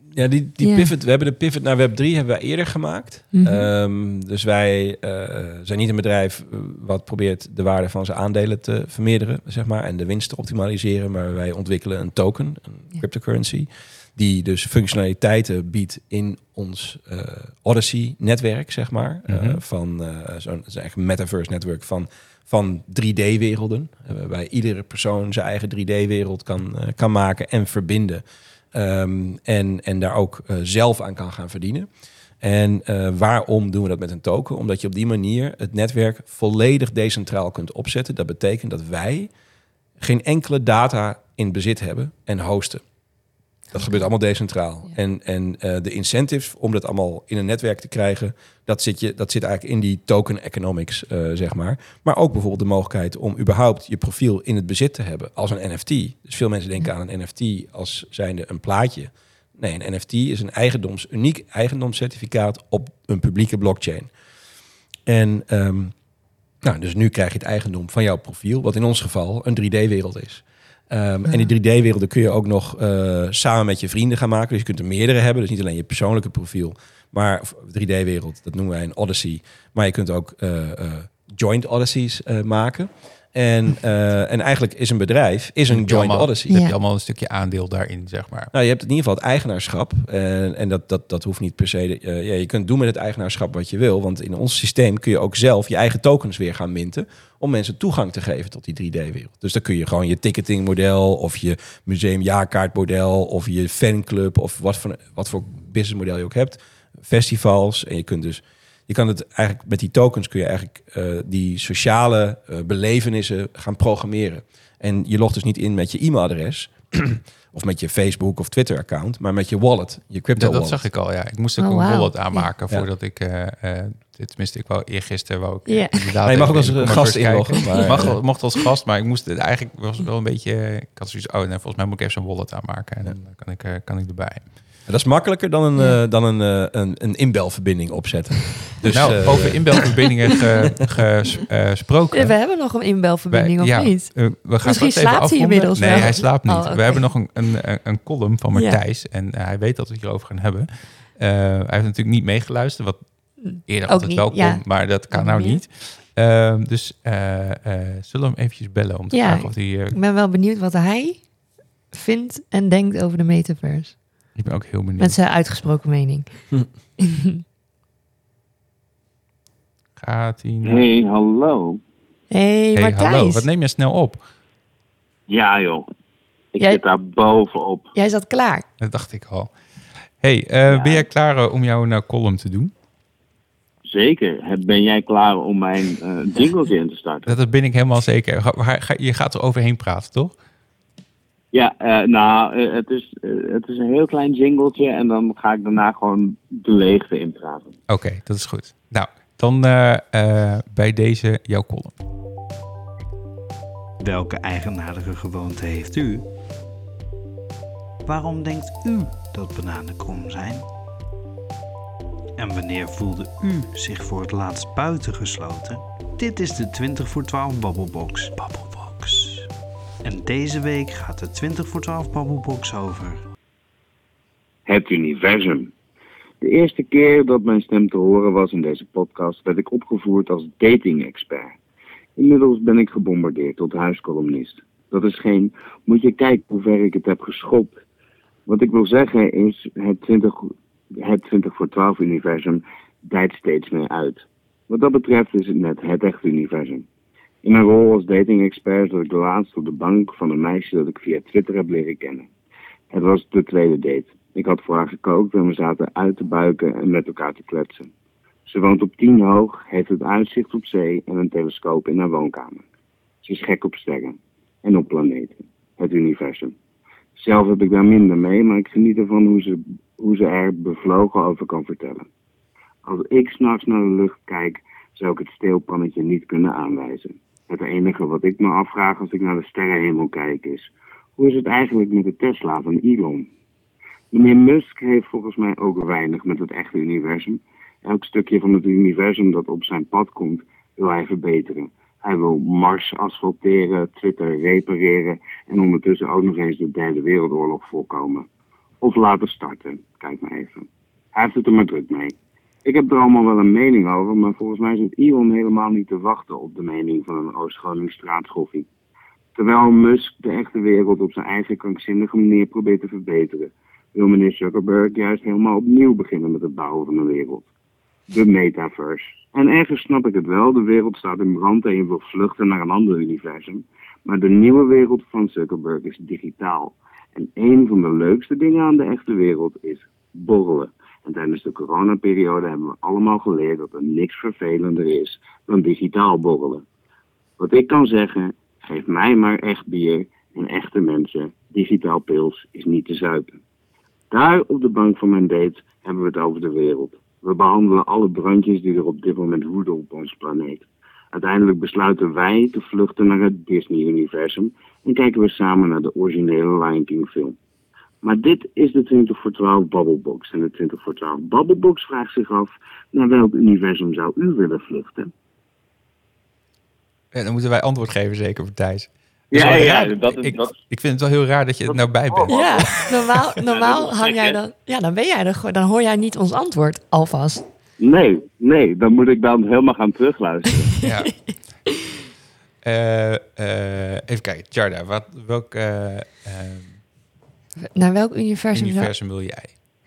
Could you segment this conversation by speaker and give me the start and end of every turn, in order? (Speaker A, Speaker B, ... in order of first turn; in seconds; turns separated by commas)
Speaker A: 0.1-31.9, Speaker B: 0.6-0.9, Speaker B: 3.3-3.7, Speaker C: 19.3-19.6, Speaker A: 32.4-39.3, Speaker A: 40.0-42.8, Speaker A: 43.7-64.1, Speaker B: 43.7-44.0, Speaker A: 65.1-66.0, Speaker A: 66.6-86.7, Speaker C: 85.7-88.5, Speaker B: 86.5-86.8, Speaker A: 88.5-120.8, Speaker C: 120.4-134.5, Speaker B: 121.6-122.5, Speaker B: 125.7-126.2, Speaker A: 126.3-128.2, Speaker B: 127.7-128.1, Speaker A: 134.9-139.9, Speaker C: 138.9-142.4, Speaker B: 142.1-147.0, Speaker C: 143.3-160.0, Speaker B: 153.4-155.6, Speaker B: 159.1-161.3, Speaker B: 161.9-164.0, Speaker C: 164.4-165.2, Speaker B: 165.0-166.4, Speaker B: 167.0-167.4, Speaker C: 170.0-170.8, Speaker D: 170.6-171.8, Speaker B: 172.3-173.5, Speaker C: 172.7-174.2, Speaker D: 175.3-175.9, Speaker D: 176.5-177.9, Speaker B: 177.9-178.7, Speaker C: 178.8-179.5, Speaker C: 180.2-182.7, Speaker D: 180.7-181.1, Speaker D: 183.9-187.3, Speaker C: 187.3-190.3, Speaker D: 191.5-197.7, Speaker C: 197.9-202.0, Speaker E: 204.0-206.3, Speaker E: 208.1-210.7, Speaker E: 212.4-219.5, Speaker E: 220.0-223.2, Speaker D: 224.7-225.7, Speaker D: 226.4-231.6, Speaker D: 232.2-237.8, Speaker D: 238.5-246.9, Speaker D: 247.4-252.3, Speaker D: 252.9-257.9, Speaker D: 258.5-262.6, Speaker D: 263.2-266.6, Speaker D: 267.2-272.1, Speaker D: 272.8-283.3, Speaker D: 284.1-298.3, Speaker D: 298.8-308.7, Speaker D: 309.4-317.5, Speaker D: 318.1-336.6, Speaker D: 337.4-343.4, Speaker D: 344.1-357.4, Speaker D: 358.0-365.1, Speaker C: 367.1-372.8, Speaker D: 369.3-370.6, Speaker D: 371.7-374.4, Speaker B: 372.3-377.4, Speaker D: 377.8-380.7, Speaker C: 380.8-381.1, Speaker C: 382.6-386.8, Speaker B: 387.8-388.9, Speaker C: 388.5-389.5